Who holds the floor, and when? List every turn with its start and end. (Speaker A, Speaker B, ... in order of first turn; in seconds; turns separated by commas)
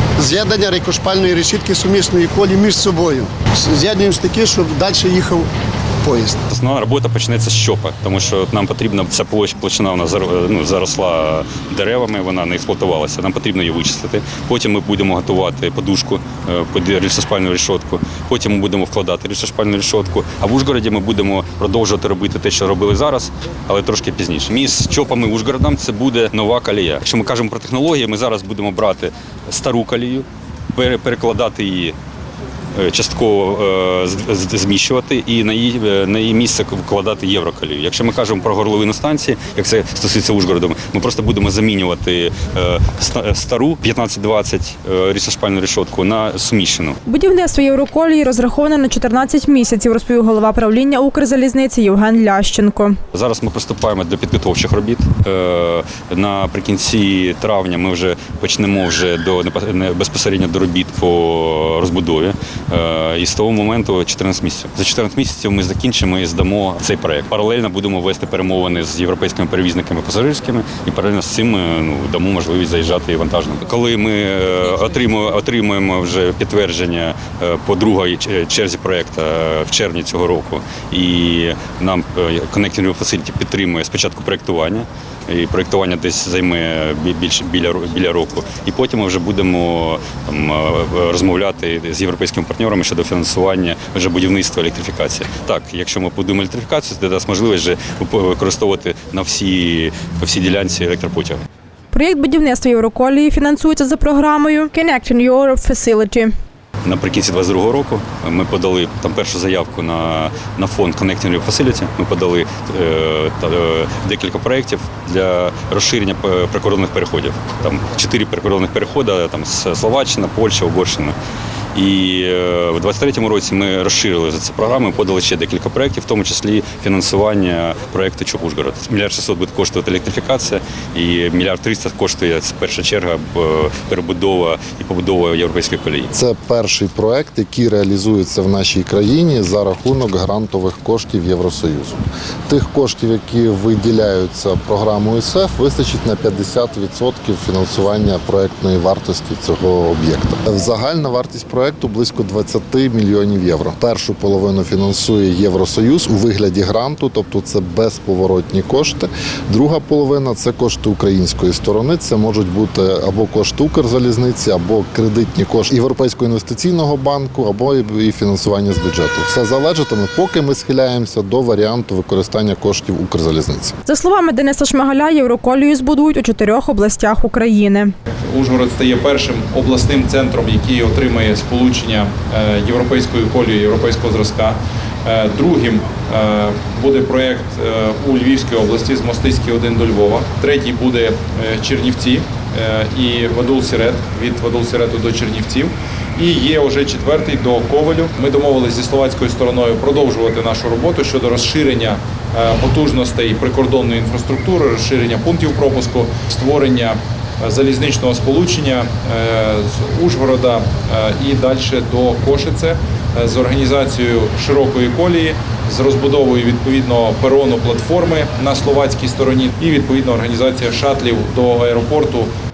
Speaker A: 0.2-5.5, Speaker A: 6.0-6.4, Speaker B: 6.5-31.9, Speaker B: 32.7-47.0, Speaker C: 47.0-53.0, Speaker B: 53.1-101.4, Speaker C: 101.9-106.3, Speaker B: 106.8-121.1, Speaker B: 121.7-136.1, Speaker D: 136.1-173.7, Speaker C: 173.8-177.9, Speaker E: 178.1-222.3